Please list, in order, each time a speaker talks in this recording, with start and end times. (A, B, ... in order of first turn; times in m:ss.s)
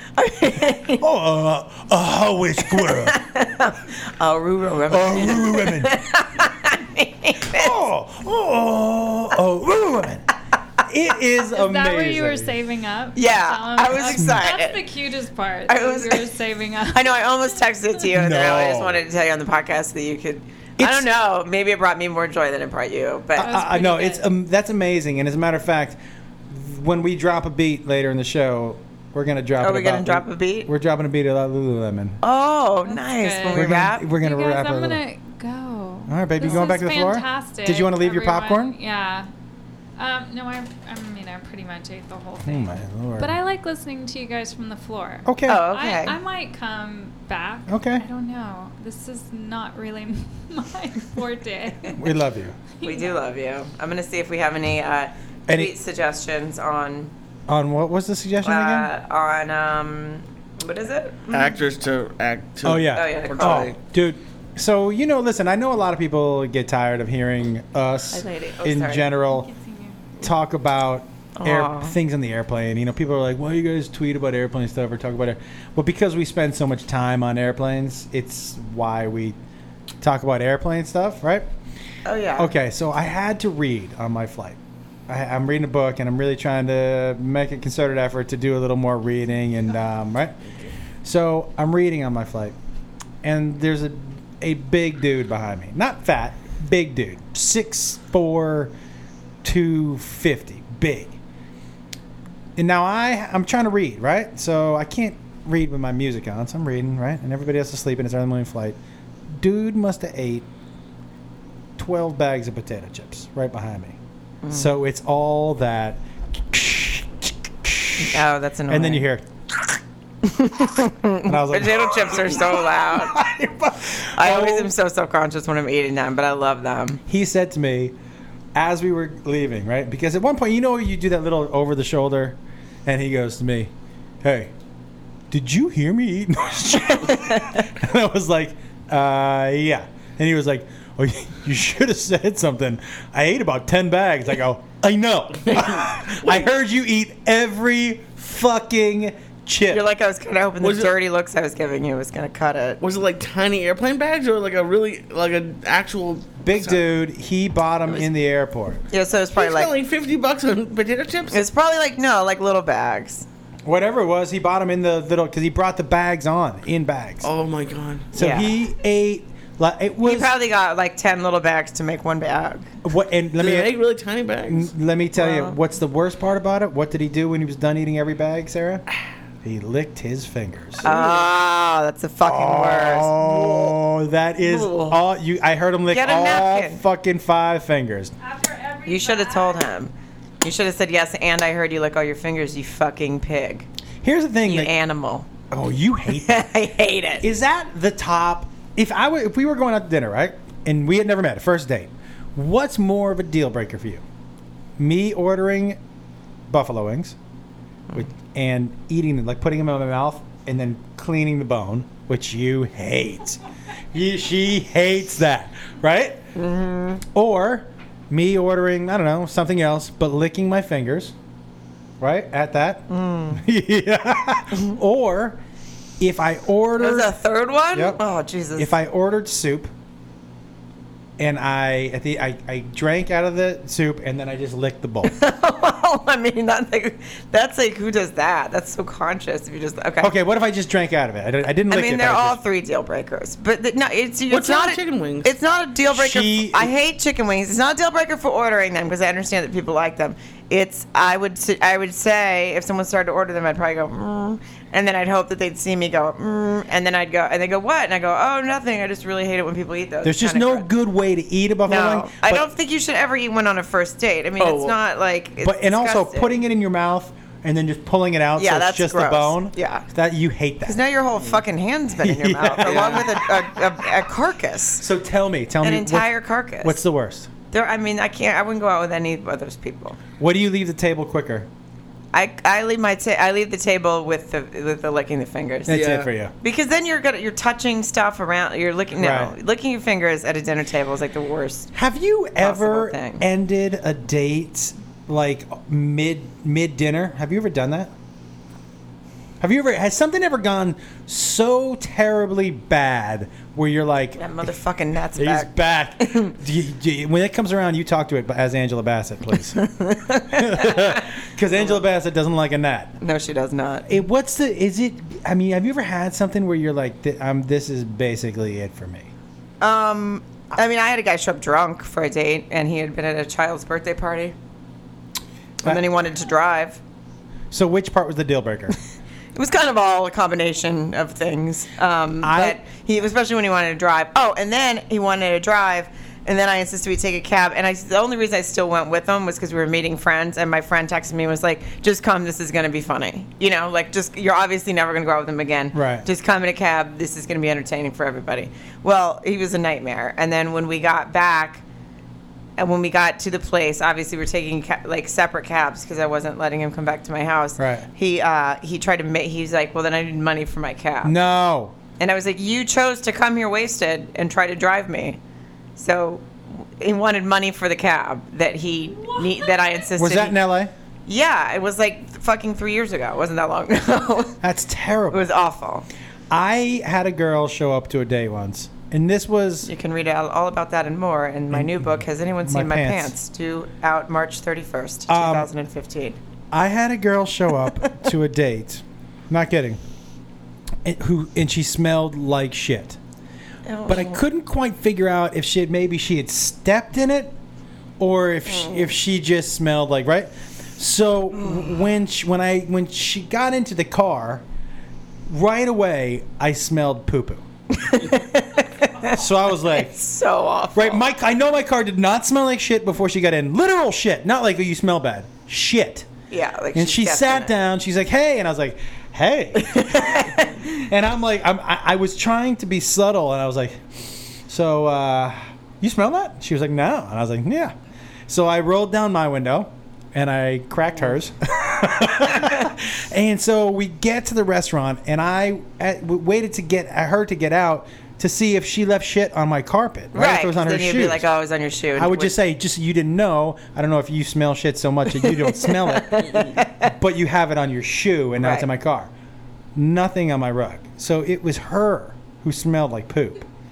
0:00.2-0:01.0 A
0:01.0-0:03.2 B
0:02.7-0:07.8 A
0:04.9-0:06.0 B
0:07.5-0:10.3 B
0:10.8-0:12.5 B
0:11.4-0:17.3 C
0:13.2-0:14.8 A
0:14.1-0:14.4 B
0:15.7-0:16.3 A
0:16.9-0:23.6 A
0:18.1-0:19.0 B
0:20.8-0:21.1 B
0:23.4-0:32.2 B
0:23.4-0:24.3 C
0:29.6-0:30.7 A
0:32.2-0:34.0 A
0:32.9-0:39.3 C
0:33.5-0:35.0 B
0:36.1-0:38.8 B
0:36.4-0:36.7 A
0:40.0-0:52.1 C
0:42.5-0:43.3 B
0:45.3-0:45.6 B
0:45.5-0:46.2 A
0:47.7-0:48.0 B
0:52.0-0:52.6 B
0:52.8-0:53.2 C
0:52.8-0:57.1 A
0:55.5-0:55.7 B
0:57.5-0:58.9 B
0:58.4-1:01.6 A
1:01.3-1:03.8 D
1:02.6-1:09.5 B
1:02.9-1:03.7 A
1:08.1-1:09.1 A
1:09.2-1:10.0 C
1:10.2-1:19.4 B
1:11.4-1:12.0 A
1:20.0-1:21.5 B
1:22.0-1:22.5 A
1:22.4-1:30.4 B
1:31.0-1:32.6 B
1:33.2-1:38.7 B
1:39.4-1:41.2 B
1:42.6-1:48.8 B
1:49.3-1:50.5 B
1:51.8-1:54.0 B
1:54.4-1:54.7 A
1:54.5-1:59.3 B
1:58.0-1:59.1 A
2:00.2-2:03.2 A
2:01.3-2:04.7 B
2:04.2-2:07.0 A
2:07.1-2:08.0 B
2:08.6-2:13.7 B
2:14.2-2:14.5 B
2:15.3-2:29.8 B
2:29.7-2:32.8 A
2:30.6-2:30.9 D
2:32.8-2:36.8 D
2:36.4-2:38.8 B
2:38.9-2:39.7 A
2:39.4-2:41.4 D
2:41.3-2:43.3 A
2:43.7-2:47.3 B
2:47.2-2:48.1 D
2:48.1-2:50.3 B
2:48.2-2:48.5 A
2:50.0-2:52.7 A
2:52.8-2:53.8 B
2:53.4-2:54.7 D
2:54.5-2:58.8 B
2:55.2-2:55.6 A
2:59.4-3:00.9 B
3:00.8-3:03.7 A
3:00.9-3:01.3 D
3:02.2-3:08.1 B
3:04.4-3:05.0 A
3:05.9-3:06.8 A
3:08.2-3:09.7 C
3:08.9-3:13.7 A
3:14.0-3:14.7 B
3:14.5-3:15.3 A
3:15.5-3:16.5 B
3:16.2-3:17.3 A
3:17.2-3:24.0 B
3:24.8-3:25.8 B
3:26.5-3:27.2 B
3:27.9-3:33.4 B
3:33.9-3:36.2 B
3:36.4-3:37.0 A
3:37.1-3:41.1 B
3:42.0-3:45.4 B
3:42.9-3:43.4 A
3:46.0-3:47.2 B
3:46.8-3:48.7 A
3:47.7-3:48.0 B
3:48.6-3:49.7 B
3:51.2-3:55.1 B
3:55.0-4:00.1 A
4:00.0-4:02.4 B
4:01.7-4:20.7 A
4:04.3-4:05.3 D
4:05.9-4:06.7 B
4:20.0-4:22.5 B
4:21.7-4:26.4 A
4:24.4-4:24.8 D
4:25.4-4:30.8 B
4:28.4-4:29.8 A
4:30.6-4:34.8 A
4:32.0-4:33.6 B
4:32.6-4:33.0 D
4:34.8-4:37.3 B
4:35.6-4:36.8 A
4:37.5-4:40.0 A
4:40.2-4:41.5 B
4:42.1-4:45.8 A
4:45.7-4:46.3 B
4:45.7-4:46.1 D
4:46.4-4:51.7 A
4:49.0-4:49.3 B
4:51.7-4:57.9 B
4:52.4-4:53.2 A
4:59.4-5:04.2 B
5:04.2-5:05.5 A
5:05.2-5:09.6 B
5:06.0-5:06.3 A
5:09.6-5:11.8 A
5:10.3-5:13.0 B
5:13.0-5:13.9 A
5:13.9-5:19.1 B
5:19.6-5:24.4 A
5:25.6-5:26.8 A
5:27.5-5:28.8 B
5:29.4-5:51.6 A
5:32.2-5:32.6 B
5:45.7-5:46.1 B
5:52.6-6:01.2 A
5:57.6-5:57.9 B
6:01.0-6:01.8 B
6:02.0-6:05.2 A
6:05.8-6:10.4 A
6:09.1-6:09.6 C
6:10.0-6:10.7 B
6:11.1-6:14.4 A
6:14.4-6:15.2 B
6:15.1-6:15.9 A
6:16.3-6:19.7 B
6:19.7-6:26.2 A
6:21.5-6:23.1 B
6:25.1-6:25.5 B
6:26.5-6:29.8 B
6:30.8-6:33.0 B
6:33.7-6:34.2 A
6:33.9-6:37.4 B
6:38.0-6:44.4 B
6:38.5-6:38.9 A
6:45.3-6:47.4 B
6:47.7-6:51.1 A
6:49.1-6:49.9 B
6:50.8-6:56.1 B
6:56.3-6:57.5 A
6:56.7-7:07.8 B
6:59.6-7:00.8 A
7:08.3-7:21.3 B
7:12.3-7:12.7 A
7:20.1-7:22.3 A
7:22.0-7:29.1 B
7:25.2-7:26.9 A
7:28.4-7:28.7 A
7:29.8-7:33.4 B